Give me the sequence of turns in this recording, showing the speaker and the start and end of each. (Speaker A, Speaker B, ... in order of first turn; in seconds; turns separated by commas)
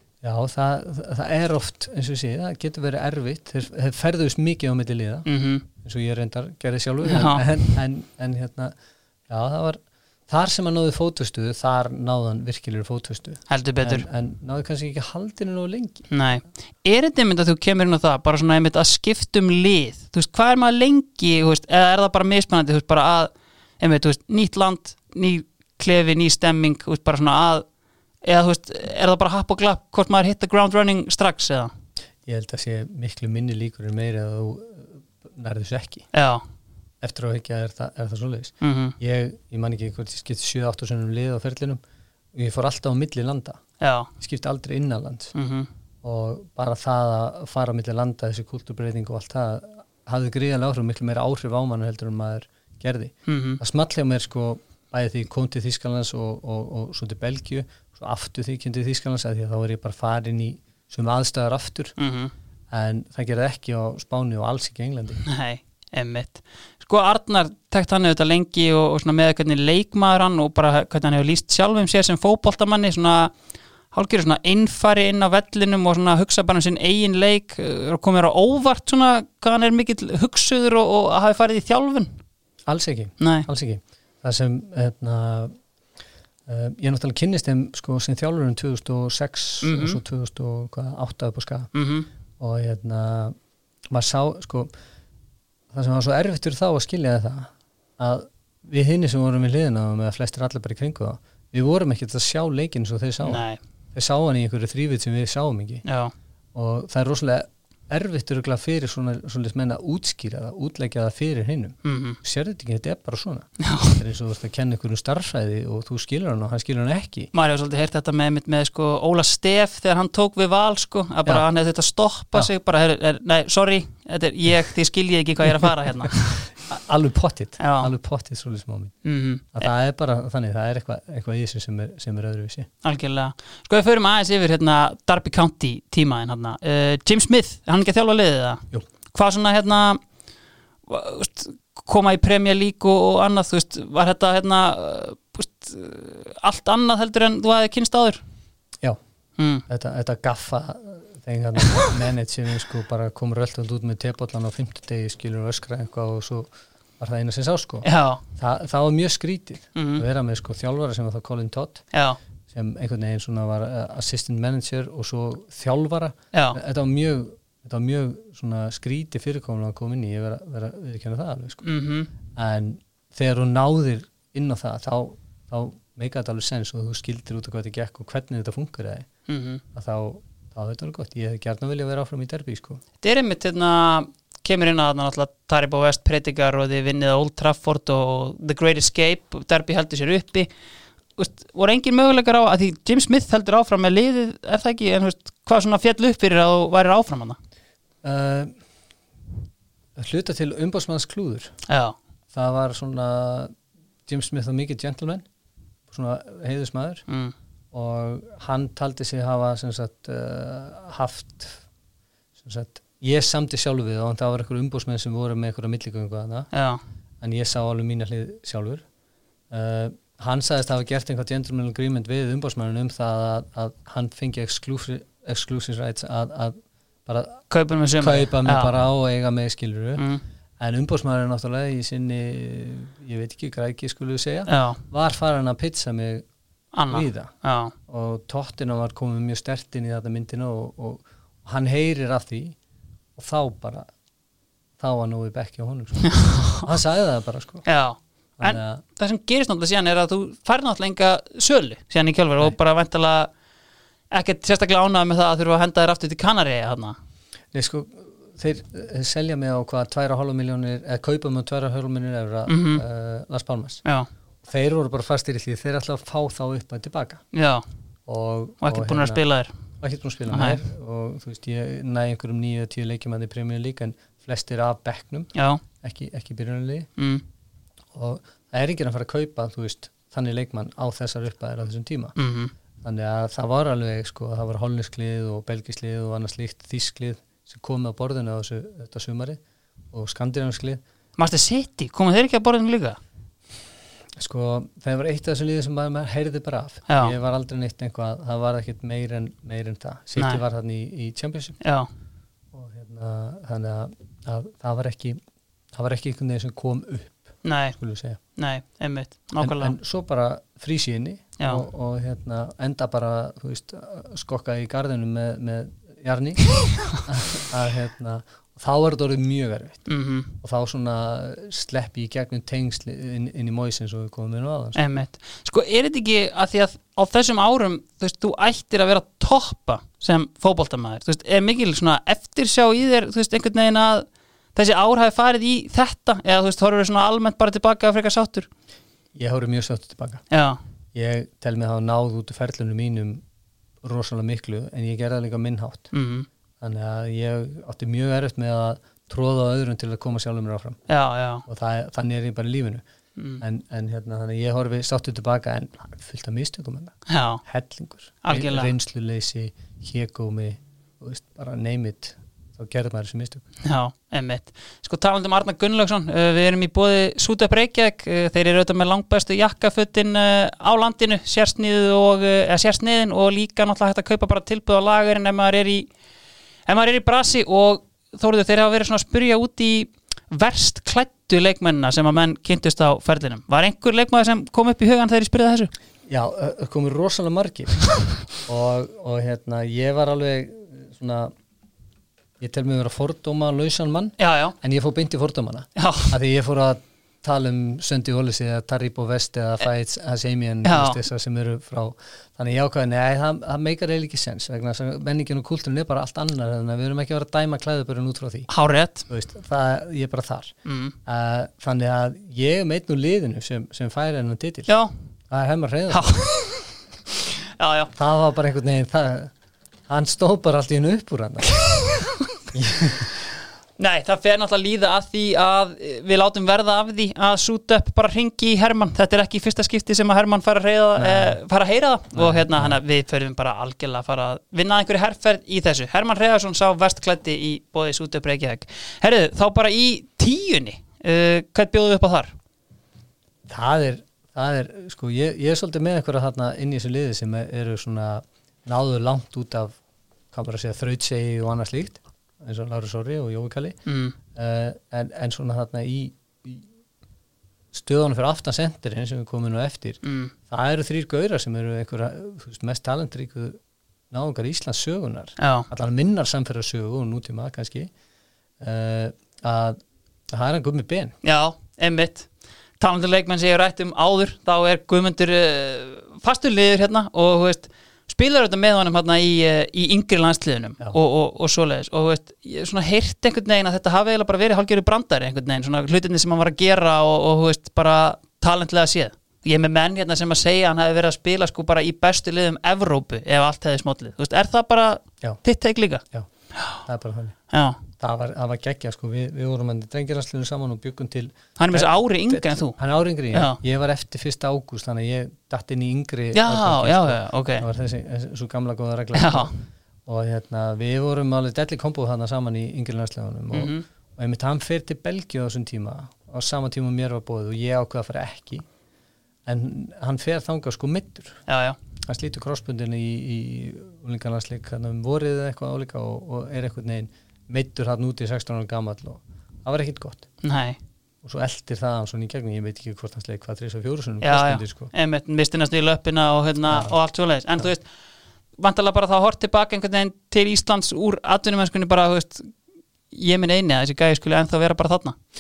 Speaker A: 0.2-8.7, Speaker B: 5.3-5.7, Speaker B: 7.0-7.7, Speaker A: 9.3-16.1, Speaker B: 13.5-14.1, Speaker B: 16.1-27.6, Speaker B: 28.2-31.7, Speaker A: 32.3-36.1, Speaker B: 36.1-36.4, Speaker A: 37.0-41.8, Speaker B: 38.6-39.0, Speaker A: 42.4-43.6, Speaker B: 43.8-44.1, Speaker A: 44.2-45.3, Speaker B: 45.3-45.7, Speaker A: 46.0-61.9, Speaker B: 53.3-53.6, Speaker B: 62.0-62.3, Speaker A: 62.7-65.2, Speaker B: 65.2-73.3, Speaker B: 73.9-82.2, Speaker A: 82.7-85.5, Speaker B: 83.2-83.5, Speaker A: 86.5-91.7, Speaker B: 89.6-90.0, Speaker B: 91.7-92.1, Speaker A: 92.4-93.3, Speaker A: 93.9-94.7, Speaker A: 95.7-103.4, Speaker B: 103.2-103.6, Speaker A: 103.9-105.8, Speaker B: 105.8-106.1, Speaker A: 106.5-117.3, Speaker B: 111.8-112.2, Speaker B: 113.6-114.0, Speaker B: 117.3-126.4, Speaker A: 125.6-128.9, Speaker B: 127.6-127.9, Speaker B: 129.0-129.7, Speaker A: 129.6-132.7, Speaker B: 132.8-140.0, Speaker B: 140.9-148.2, Speaker B: 149.4-149.7, Speaker A: 149.7-161.8, Speaker B: 151.6-151.9, Speaker B: 157.8-158.2, Speaker B: 159.8-160.0, Speaker B: 161.9-162.2, Speaker A: 162.5-171.6, Speaker B: 166.3-166.6, Speaker B: 171.6-172.1, Speaker A: 172.3-179.1, Speaker B: 179.3-179.6, Speaker A: 179.7-182.8, Speaker B: 183.0-190.5, Speaker B: 191.2-197.4, Speaker A: 198.0-198.6, Speaker A: 200.0-201.5, Speaker B: 201.7-202.0, Speaker A: 202.3-203.5, Speaker A: 204.1-205.2, Speaker A: 205.9-207.1, Speaker B: 207.1-207.3, Speaker A: 207.7-211.6, Speaker A: 212.4-216.5, Speaker B: 216.5-216.8, Speaker A: 217.2-218.8, Speaker A: 219.5-227.4, Speaker B: 227.5-228.7, Speaker A: 228.0-230.0, Speaker B: 230.0-230.2, Speaker A: 230.6-236.2, Speaker B: 234.5-234.8, Speaker B: 236.7-237.7, Speaker A: 236.9-237.3, Speaker A: 237.9-242.6, Speaker A: 243.2-243.9, Speaker A: 244.8-247.6, Speaker B: 246.0-246.7, Speaker B: 247.7-253.3, Speaker A: 248.4-248.8, Speaker B: 254.1-257.0, Speaker A: 257.5-263.8, Speaker B: 262.5-262.8, Speaker A: 264.4-267.2, Speaker B: 267.3-267.6, Speaker A: 268.1-269.2, Speaker B: 268.6-269.5, Speaker A: 269.8-275.3, Speaker B: 270.3-270.6, Speaker B: 275.4-275.6, Speaker A: 275.8-276.9, Speaker B: 277.0-277.2, Speaker A: 277.9-282.2, Speaker B: 282.2-282.5, Speaker A: 282.8-289.4, Speaker A: 289.9-290.8, Speaker B: 291.2-293.0, Speaker A: 294.2-301.6, Speaker B: 296.9-297.1, Speaker B: 301.6-301.9, Speaker A: 302.5-305.2, Speaker A: 305.7-308.2, Speaker B: 307.4-307.8, Speaker B: 308.4-309.8, Speaker A: 309.4-319.9, Speaker B: 319.9-320.4, Speaker A: 320.4-324.8, Speaker B: 324.8-338.5, Speaker A: 339.1-340.2, Speaker B: 340.3-340.6, Speaker A: 340.9-343.2, Speaker A: 343.8-345.9, Speaker B: 345.9-346.3, Speaker A: 346.6-350.8, Speaker B: 350.9-351.4, Speaker A: 351.5-352.8, Speaker B: 353.2-353.4, Speaker A: 353.4-363.5, Speaker B: 357.1-357.4, Speaker B: 358.2-358.7, Speaker B: 363.6-375.9, Speaker B: 376.7-385.7, Speaker A: 386.1-391.3, Speaker A: 392.4-408.5, Speaker B: 394.2-394.6, Speaker B: 395.8-396.1, Speaker B: 400.6-401.0, Speaker B: 408.5-409.1, Speaker A: 409.1-410.5, Speaker B: 410.7-411.0, Speaker A: 411.1-414.7, Speaker A: 415.3-416.1, Speaker B: 415.9-416.7, Speaker B: 417.4-417.9, Speaker A: 417.9-419.3, Speaker A: 419.9-421.7, Speaker B: 421.8-422.2, Speaker A: 422.5-423.1, Speaker B: 423.8-442.3, Speaker A: 431.0-431.4, Speaker A: 432.1-432.8, Speaker A: 443.5-449.8, Speaker A: 450.3-453.8, Speaker B: 453.9-454.2, Speaker A: 454.3-456.6, Speaker A: 457.7-463.6, Speaker B: 460.0-460.3, Speaker A: 464.1-467.9, Speaker B: 465.4-465.7, Speaker A: 468.6-469.8, Speaker A: 470.3-471.1, Speaker B: 471.2-472.3, Speaker B: 472.8-496.0, Speaker A: 496.8-497.4, Speaker B: 497.5-497.8, Speaker A: 498.0-509.5, Speaker B: 501.6-502.8, Speaker B: 503.3-503.6, Speaker B: 506.3-507.7, Speaker B: 509.1-509.6, Speaker A: 510.1-518.6, Speaker B: 513.5-513.9, Speaker A: 519.5-521.4, Speaker B: 521.5-521.8, Speaker A: 522.1-530.3, Speaker B: 530.4-530.8, Speaker A: 531.2-534.9, Speaker B: 534.2-537.8, Speaker A: 536.7-536.9, Speaker B: 538.6-542.5, Speaker B: 543.1-545.2